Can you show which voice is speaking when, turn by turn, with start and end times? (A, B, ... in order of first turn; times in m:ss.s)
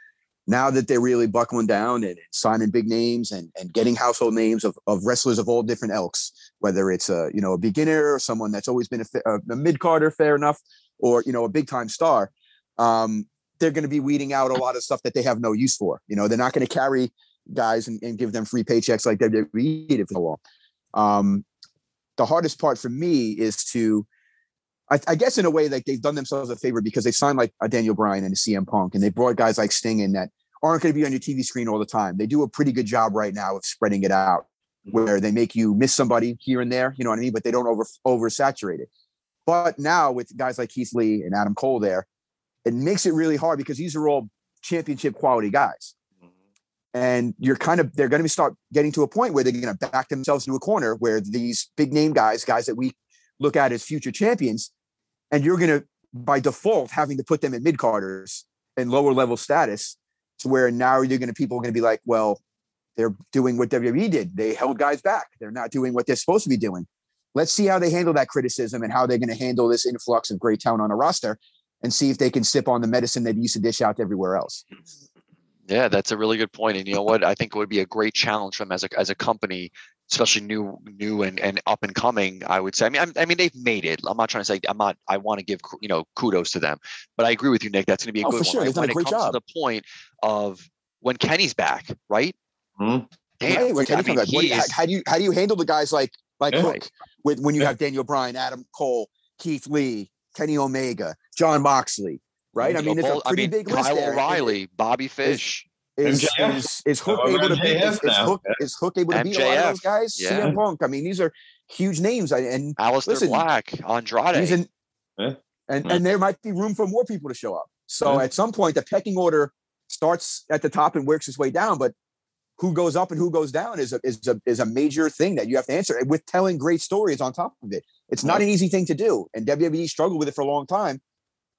0:00.5-0:20.4 A
0:21.0-0:21.4 A
0:22.2-0:24.1 A
0:24.9-0:38.9 A
0:39.4-0:42.1 A
0:42.6-0:45.9 A
0:46.9-0:54.7 A
0:55.3-1:02.4 A
1:03.0-1:14.6 A
1:15.7-1:32.4 B
1:28.2-1:29.4 A
1:32.8-1:33.1 C
1:33.4-1:34.7 B
1:33.5-1:44.6 A
1:36.6-1:36.9 B
1:42.6-1:45.6 B
1:46.0-1:53.4 A
1:46.0-1:48.6 C
1:49.1-1:50.5 B
1:52.8-1:54.6 B
1:54.3-1:54.7 A
1:55.2-1:56.0 C
1:55.7-2:01.9 A
2:02.6-2:11.0 A